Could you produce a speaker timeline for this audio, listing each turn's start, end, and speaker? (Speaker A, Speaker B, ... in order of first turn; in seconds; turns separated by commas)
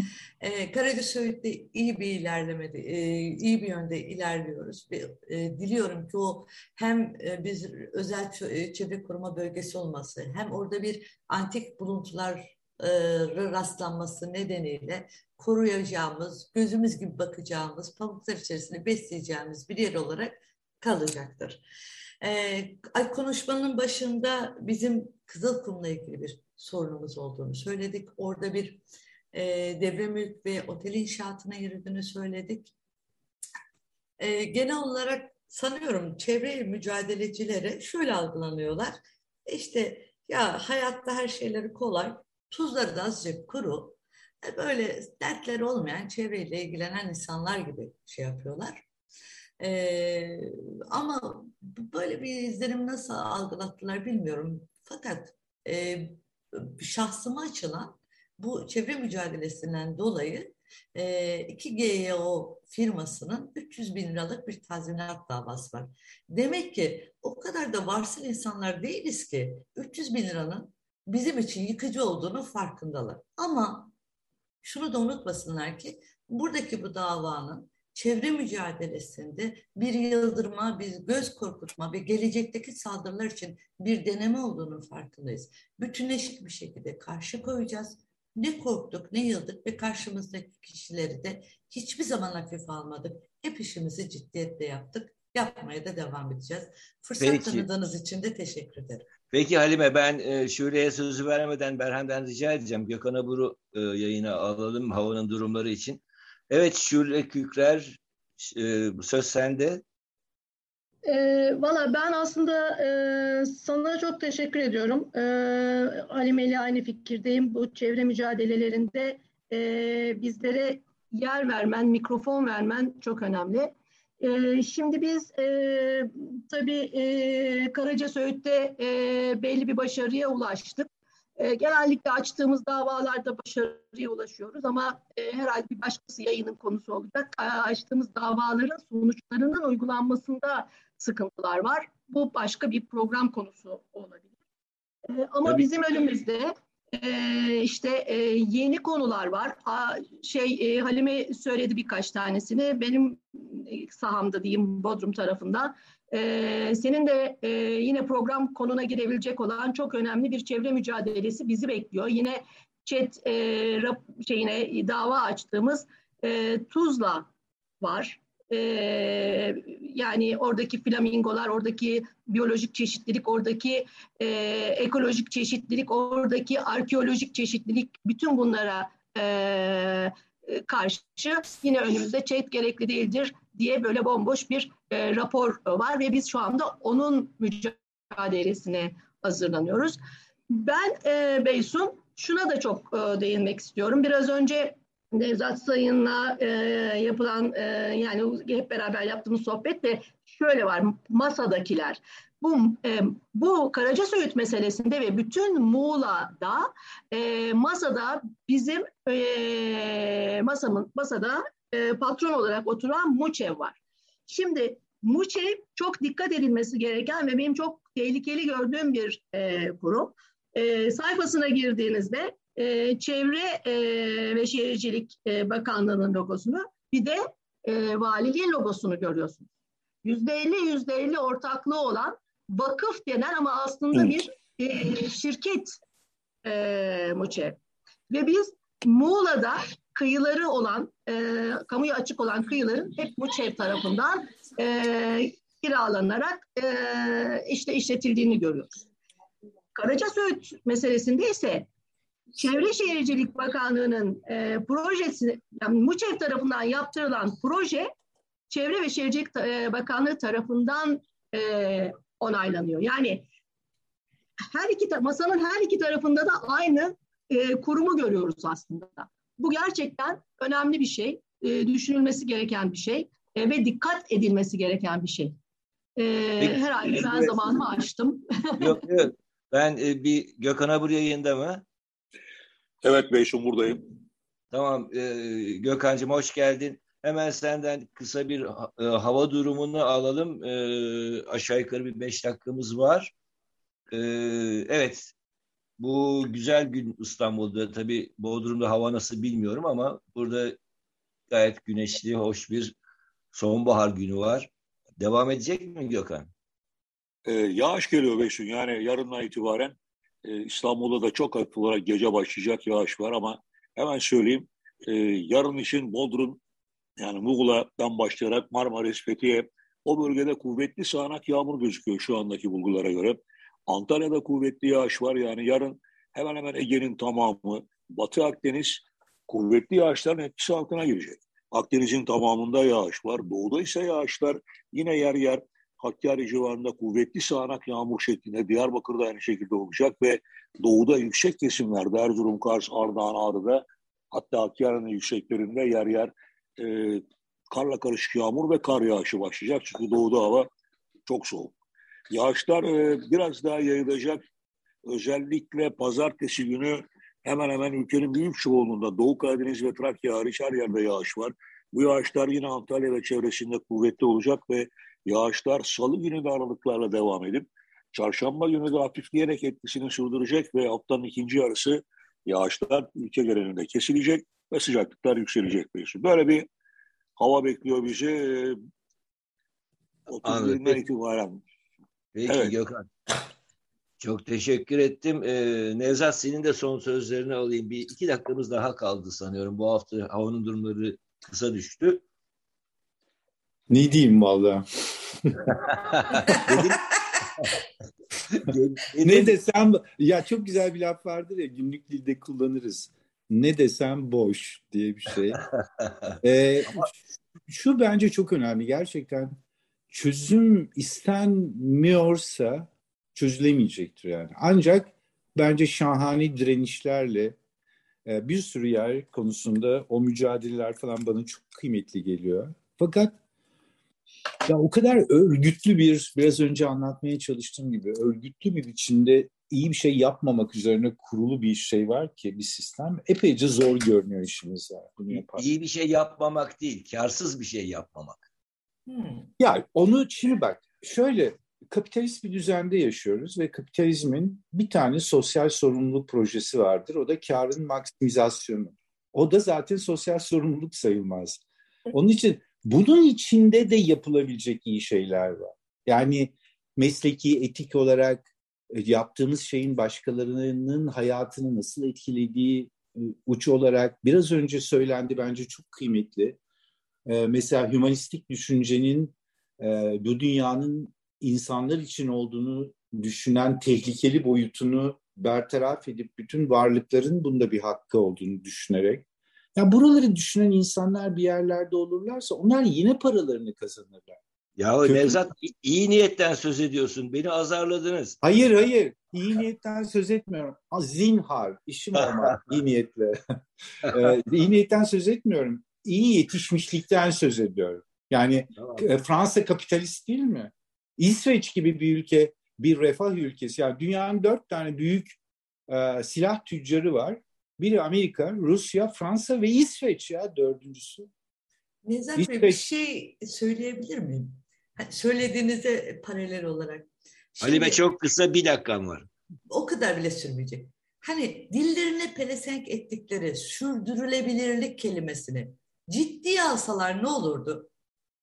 Speaker A: 0.4-21.6, Speaker A: 22.2-28.8, Speaker A: 29.3-32.7, Speaker A: 34.2-38.9, Speaker A: 39.5-48.9, Speaker A: 49.6-73.9, Speaker A: 74.6-99.1, Speaker B: 97.2-97.7, Speaker B: 99.3-109.8, Speaker C: 111.0-144.3, Speaker C: 145.1-167.3, Speaker C: 167.8-190.0, Speaker C: 190.5-229.5, Speaker C: 230.0-235.8, Speaker C: 236.4-237.6, Speaker C: 238.1-248.7, Speaker C: 249.7-251.7, Speaker C: 252.3-257.9, Speaker C: 258.5-263.2, Speaker C: 264.5-275.4, Speaker C: 276.0-278.8, Speaker B: 276.4-277.5, Speaker B: 278.6-281.6, Speaker D: 282.8-283.8, Speaker B: 284.5-293.1, Speaker B: 293.9-295.1, Speaker B: 295.8-300.6, Speaker B: 301.3-302.7, Speaker B: 303.3-306.3, Speaker D: 307.2-316.4, Speaker D: 317.0-350.5, Speaker D: 351.1-351.6, Speaker D: 352.1-354.2, Speaker D: 354.9-376.5, Speaker D: 377.2-378.6, Speaker D: 380.1-381.4, Speaker B: 380.2-380.8, Speaker B: 382.1-382.9, Speaker D: 382.3-382.5, Speaker B: 384.0-392.0, Speaker E: 393.7-394.6, Speaker E: 395.2-395.5, Speaker B: 395.7-396.8, Speaker B: 398.3-399.4, Speaker E: 399.0-405.4, Speaker E: 406.2-406.9, Speaker E: 407.4-409.4, Speaker E: 409.9-417.4, Speaker E: 418.1-423.2, Speaker E: 424.5-435.4, Speaker B: 435.1-438.2, Speaker A: 438.9-439.3, Speaker E: 439.4-466.4, Speaker E: 467.1-479.0, Speaker E: 479.6-484.2, Speaker B: 484.6-488.2, Speaker E: 484.8-485.2, Speaker E: 488.2-493.1, Speaker B: 492.0-492.5, Speaker B: 493.8-494.1, Speaker E: 493.9-505.2, Speaker B: 498.6-498.9, Speaker E: 505.7-511.1, Speaker A: 511.8-517.8, Speaker E: 512.1-512.6, Speaker B: 517.4-519.1, Speaker A: 519.5-527.7